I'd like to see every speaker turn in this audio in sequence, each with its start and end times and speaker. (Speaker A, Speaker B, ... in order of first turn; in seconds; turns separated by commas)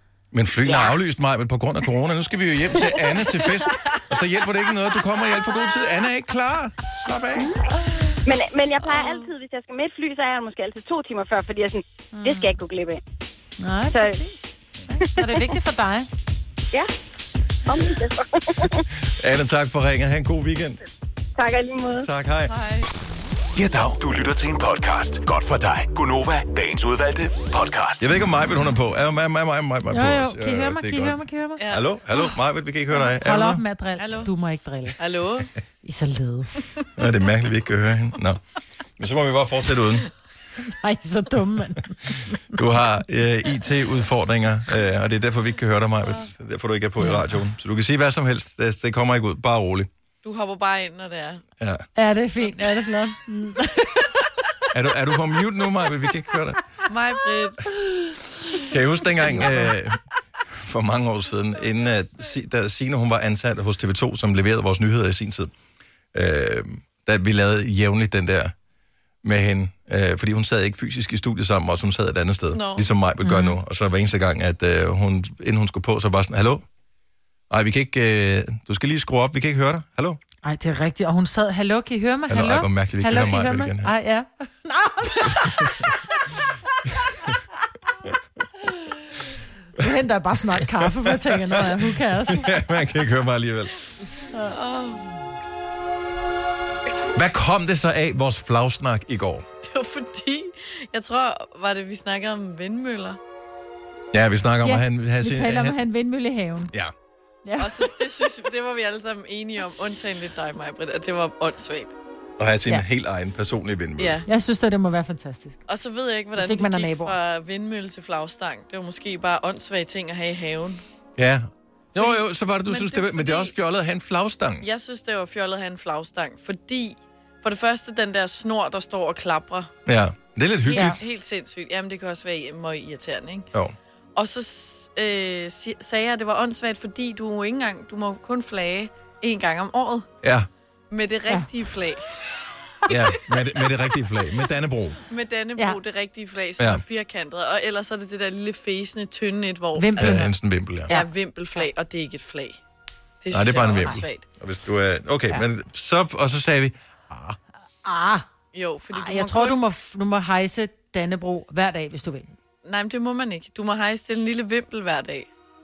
Speaker A: 0.3-7.5, Speaker B: 8.2-13.0, Speaker C: 8.9-9.2, Speaker D: 12.1-12.6, Speaker D: 13.6-16.1, Speaker B: 13.9-14.2, Speaker B: 15.2-15.4, Speaker B: 17.7-18.8, Speaker A: 19.1-20.8, Speaker B: 21.4-22.1, Speaker A: 22.0-22.5, Speaker C: 22.5-22.9, Speaker E: 23.6-28.1, Speaker A: 28.0-31.2, Speaker D: 29.9-31.6, Speaker C: 31.6-31.9, Speaker A: 31.7-33.6, Speaker D: 32.9-35.0, Speaker C: 34.0-34.3, Speaker C: 35.0-35.5, Speaker D: 35.8-36.5, Speaker A: 37.0-38.4, Speaker A: 39.0-40.1, Speaker D: 40.7-42.2, Speaker A: 42.5-49.9, Speaker D: 47.0-47.3, Speaker C: 50.2-51.4, Speaker A: 51.6-51.8, Speaker D: 52.0-54.0, Speaker A: 54.7-56.6, Speaker C: 56.9-57.6, Speaker A: 58.7-60.0, Speaker D: 59.3-59.7, Speaker A: 60.5-65.5, Speaker A: 66.1-68.5, Speaker A: 69.2-76.6, Speaker C: 72.5-72.9, Speaker D: 73.2-73.6, Speaker A: 77.5-80.2, Speaker D: 80.4-85.9, Speaker A: 82.3-83.9, Speaker D: 89.8-92.5, Speaker A: 90.6-91.6, Speaker A: 92.3-93.7, Speaker C: 94.5-95.0, Speaker A: 97.1-99.5, Speaker C: 99.6-103.2, Speaker A: 104.1-105.8, Speaker D: 104.6-106.7, Speaker D: 107.5-107.7, Speaker C: 107.6-111.9, Speaker A: 112.4-114.2, Speaker C: 114.0-114.3, Speaker D: 114.3-115.6, Speaker C: 115.7-120.8, Speaker D: 116.4-117.1, Speaker A: 121.2-124.7, Speaker C: 122.0-123.5, Speaker C: 124.6-129.7, Speaker A: 129.9-131.0, Speaker C: 130.7-133.5, Speaker D: 130.7-131.0, Speaker C: 134.2-140.1, Speaker A: 140.2-140.5, Speaker C: 140.9-142.1, Speaker A: 142.9-145.0, Speaker C: 145.1-150.3, Speaker D: 149.8-150.3, Speaker A: 150.0-150.9, Speaker C: 150.9-152.6, Speaker C: 153.2-154.2, Speaker A: 153.3-157.3, Speaker D: 157.8-158.3, Speaker C: 158.5-159.6, Speaker D: 158.9-162.3, Speaker C: 162.6-165.3